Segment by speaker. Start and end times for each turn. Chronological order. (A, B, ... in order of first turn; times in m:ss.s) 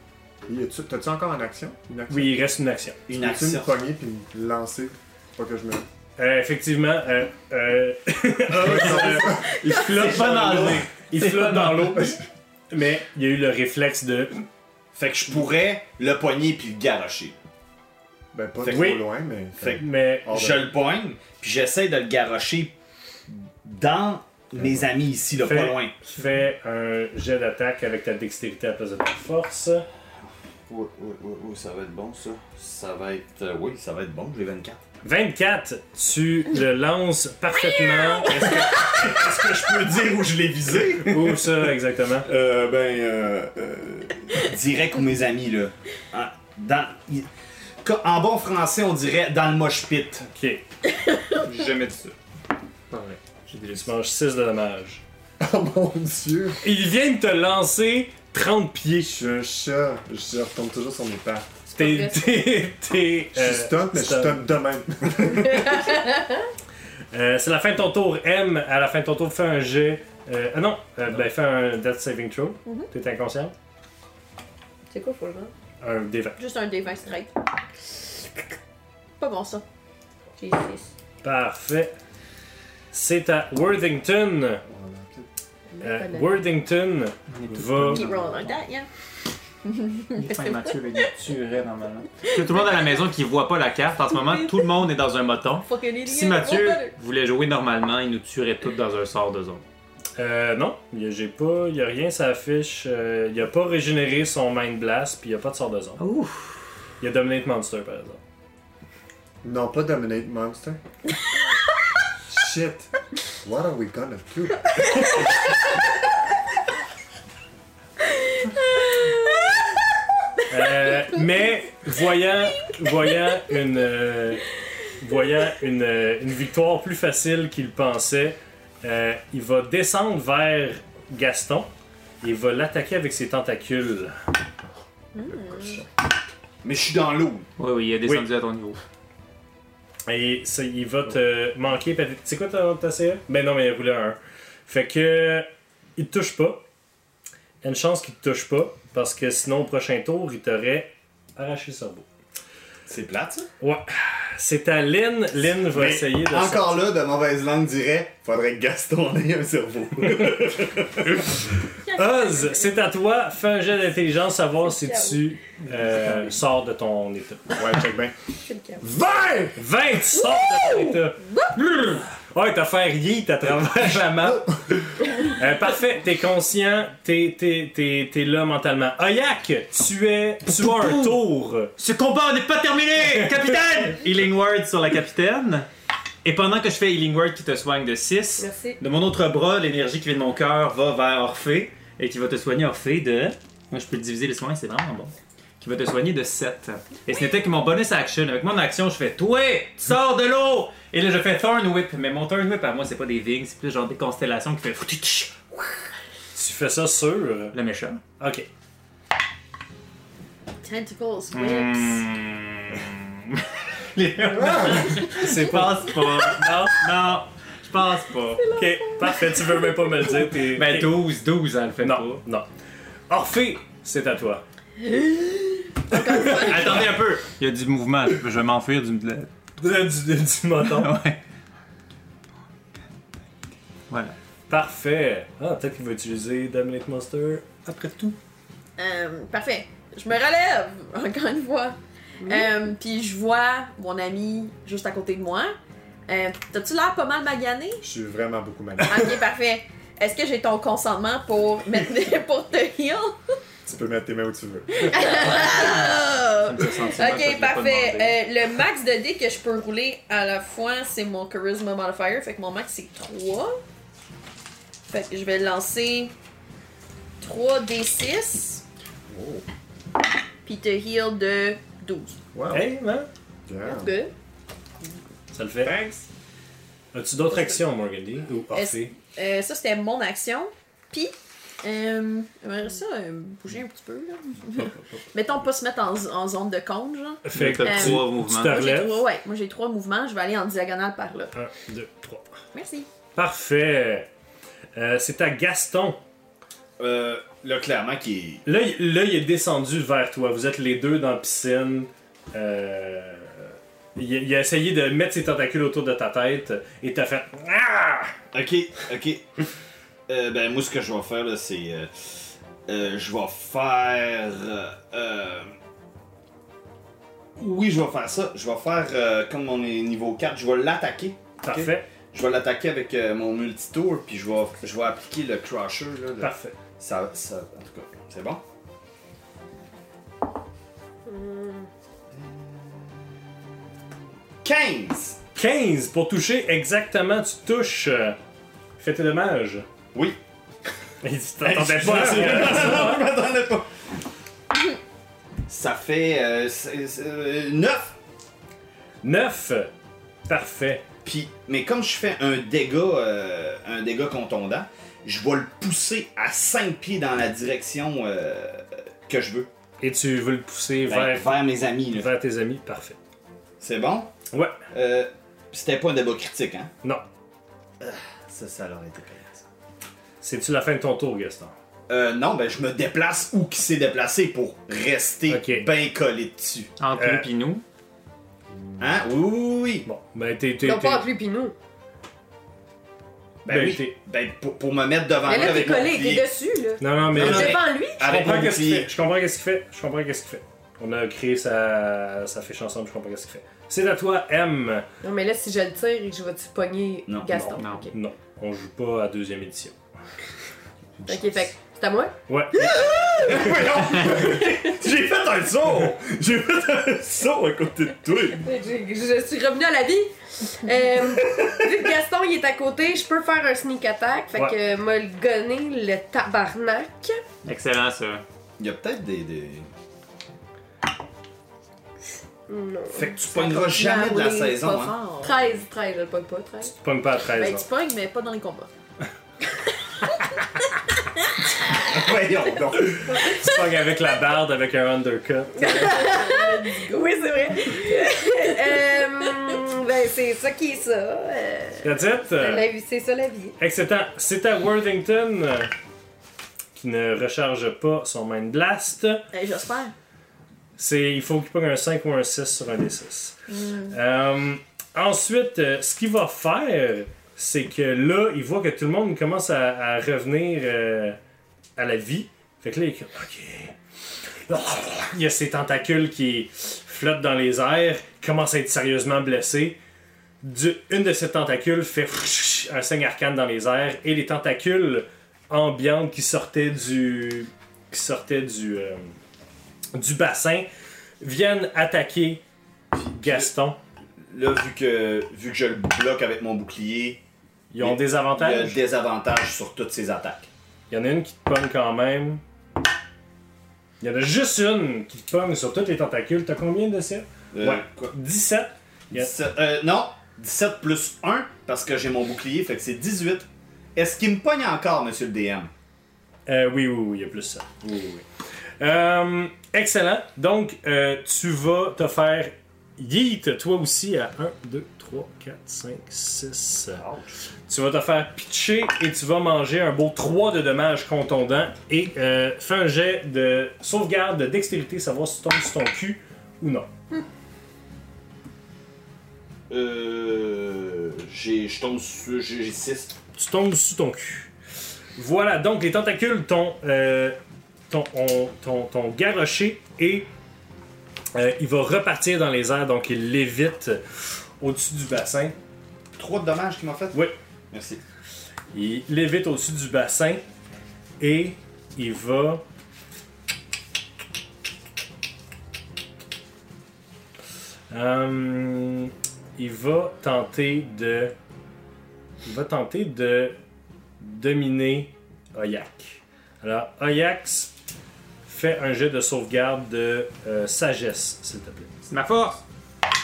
0:00.4-0:02.4 A
0:02.1-0:03.0 B
0:03.1-0:03.7 C
0:03.1-0:05.8 A
0:06.2-0:14.4 B
0:08.5-0:09.6 A
0:09.6-0:10.9 C
0:09.7-0:12.1 D
0:14.9-0:17.4 C
0:18.3-0:20.6 A
0:18.6-0:18.9 C
0:18.7-0:19.0 B
0:19.6-0:22.7 C
0:19.7-0:20.3 B
0:23.3-0:25.9 C
0:24.6-0:24.9 A
0:25.4-0:29.8 B
0:30.7-0:34.8 C
0:35.0-0:38.8 B
0:37.9-0:38.2 E
0:38.2-0:41.7 C
0:40.9-0:42.3 B
0:42.2-0:47.3 C
0:47.8-0:50.3 C
0:50.3-0:50.6 B
0:51.4-0:52.1 D
0:52.9-0:53.9 D
0:53.7-0:55.0 B
0:55.4-0:56.6 A
0:56.6-0:59.3 B
0:59.1-1:01.5 A
1:01.7-1:02.4 F
1:01.7-1:04.5 B
1:03.3-1:05.9 A
1:05.3-1:06.5 F
1:07.1-1:13.5 B
1:14.9-1:15.5 F
1:15.8-1:16.4 B
1:16.4-1:17.3 E
1:19.2-1:19.6 E
1:20.4-1:20.9 F
1:21.2-1:21.9 B
1:22.9-1:24.6 B
1:24.6-1:25.3 A
1:25.7-1:26.4 F
1:25.8-1:28.1 B
1:27.3-1:28.6 D
1:27.9-1:28.9 E
1:29.6-1:31.1 E
1:30.1-1:39.6 D
1:32.2-1:33.0 E
1:35.6-1:36.9 E
1:40.2-1:46.0 B
1:46.0-1:46.6 D
1:47.0-1:48.2 B
1:49.4-1:50.8 A
1:52.3-1:52.9 A
1:53.4-1:55.2 A
1:58.4-1:59.6 E
2:00.5-2:11.7 B
2:12.2-2:14.2 B
2:15.1-2:15.8 E
2:15.3-2:15.9 A
2:16.6-2:17.5 C
2:17.6-2:18.8 D
2:20.1-2:26.6 B
2:27.6-2:32.0 B
2:32.9-2:33.5 C
2:33.6-2:36.8 B
2:35.7-2:41.4 C
2:41.8-2:42.7 E
2:41.9-2:47.6 B
2:44.7-2:45.2 E
2:47.5-2:48.2 A
2:48.4-2:48.8 F
2:48.8-2:49.6 A
2:49.6-3:01.7 B
2:50.2-2:51.6 E
2:54.2-2:54.5 A
3:00.5-3:01.2 D
3:01.8-3:05.7 D
3:06.2-3:25.3 D
3:08.4-3:08.8 F
3:26.3-3:27.6 B
3:27.5-3:28.0 D
3:28.2-3:28.5 B
3:30.6-3:32.0 E
3:31.3-3:38.6 D
3:34.3-3:35.0 A
3:34.6-3:36.8 B
3:38.4-3:39.7 F
3:38.5-3:40.9 B
3:40.5-3:42.2 D
3:41.8-3:42.5 B
3:43.1-3:44.4 B
3:44.8-3:46.8 E
3:45.9-3:46.9 B
3:46.1-3:49.3 D
3:49.6-3:51.0 B
3:50.6-3:51.2 D
3:53.9-3:54.2 D
3:54.5-3:57.6 B
3:57.6-3:58.2 D
3:58.8-4:05.5 E
4:02.2-4:02.5 F
4:06.1-4:07.8 E
4:07.8-4:09.2 A
4:08.8-4:13.2 E
4:13.6-4:15.4 A
4:14.8-4:23.6 E
4:16.4-4:18.2 D
4:24.9-4:26.1 E
4:27.2-4:28.6 E
4:29.1-4:29.4 A
4:30.4-4:32.2 E
4:32.3-4:32.7 A
4:32.5-4:33.1 B
4:33.4-4:33.9 A
4:33.6-4:34.1 F
4:35.3-4:35.7 B
4:35.6-4:36.1 A
4:36.9-4:38.9 B
4:38.5-4:51.3 E
4:47.2-4:49.0 B
4:47.3-4:48.6 D
4:51.3-4:52.3 B
4:52.5-4:52.9 E
4:53.2-4:54.1 B
4:54.8-4:56.0 B
4:56.8-4:58.4 C
4:58.4-5:08.1 B
5:08.3-5:09.3 C
5:10.1-5:15.5 C
5:17.4-5:28.4 C
5:21.4-5:21.9 B
5:26.2-5:26.5 B
5:31.0-5:31.7 F
5:32.1-5:33.1 C
5:34.4-5:35.2 C
5:35.4-5:38.2 B
5:38.8-5:39.7 B
5:41.0-5:43.1 B
5:41.4-5:43.7 C
5:45.5-5:47.9 C
5:49.0-5:49.7 B
5:50.3-5:50.8 B
5:51.0-5:59.5 C
5:59.8-6:01.4 B
6:00.9-6:02.1 C
6:01.9-6:03.0 B
6:03.6-6:04.1 C
6:04.3-6:04.6 B
6:04.7-6:06.7 C
6:07.8-6:09.4 C
6:10.2-6:11.5 B
6:11.9-6:16.7 C
6:15.3-6:15.7 B
6:16.8-6:17.6 D
6:16.9-6:17.3 B
6:18.6-6:18.8 A
6:18.8-6:19.9 C
6:19.8-6:21.0 B
6:20.6-6:21.5 F
6:23.4-6:26.3 C
6:23.5-6:24.0 B
6:25.2-6:28.2 F
6:26.8-6:34.8 B
6:27.1-6:28.9 C
6:35.0-6:38.0 F
6:37.1-6:37.3 C
6:37.3-6:39.8 B
6:37.6-6:37.9 D
6:41.0-6:41.3 A
6:41.1-6:42.1 F
6:42.3-6:42.8 B
6:42.6-6:48.4 C
6:43.9-6:44.5 A
6:48.3-6:57.2 F
6:51.2-6:51.6 C
6:57.4-6:58.2 D
6:58.6-6:59.7 C
7:02.5-7:04.5 F
7:02.9-7:05.0 C
7:03.7-7:05.5 E
7:05.2-7:06.7 F
7:06.7-7:07.6 B
7:07.3-7:08.7 E
7:11.6-7:13.2 C
7:12.7-7:15.9 B
7:15.6-7:23.6 F
7:15.7-7:16.9 E
7:17.7-7:18.4 E
7:21.8-7:22.7 B
7:23.6-7:25.7 B
7:26.8-7:29.3 B
7:29.3-7:29.9 E
7:30.8-7:33.4 B
7:33.5-7:34.0 E
7:33.9-7:41.2 B
7:41.8-7:43.8 B
7:44.5-7:49.8 B
7:50.4-7:59.1 B
7:59.9-8:00.7 B
8:01.2-8:02.4 B
8:03.0-8:03.5 C
8:03.0-8:03.8 B
8:04.3-8:07.2 C
8:07.7-8:08.8 B
8:07.8-8:10.5 C
8:10.9-8:12.4 B
8:14.0-8:19.3 B
8:17.5-8:18.1 C
8:19.1-8:25.7 C
8:26.5-8:28.2 B
8:28.8-8:37.0 B
8:37.0-8:37.3 C
8:37.7-8:46.9 B
8:49.7-8:53.2 C
8:53.4-8:54.5 B
8:55.2-8:57.4 B
8:57.9-9:00.3 B
9:01.3-9:04.0 B
9:04.6-9:05.6 B
9:06.2-9:08.0 C
9:08.7-9:10.4 B
9:11.2-9:12.6 B
9:17.9-9:21.3 B
9:22.4-9:23.6 B
9:24.2-9:27.7 B
9:28.4-9:31.9 B
9:32.1-9:32.6 D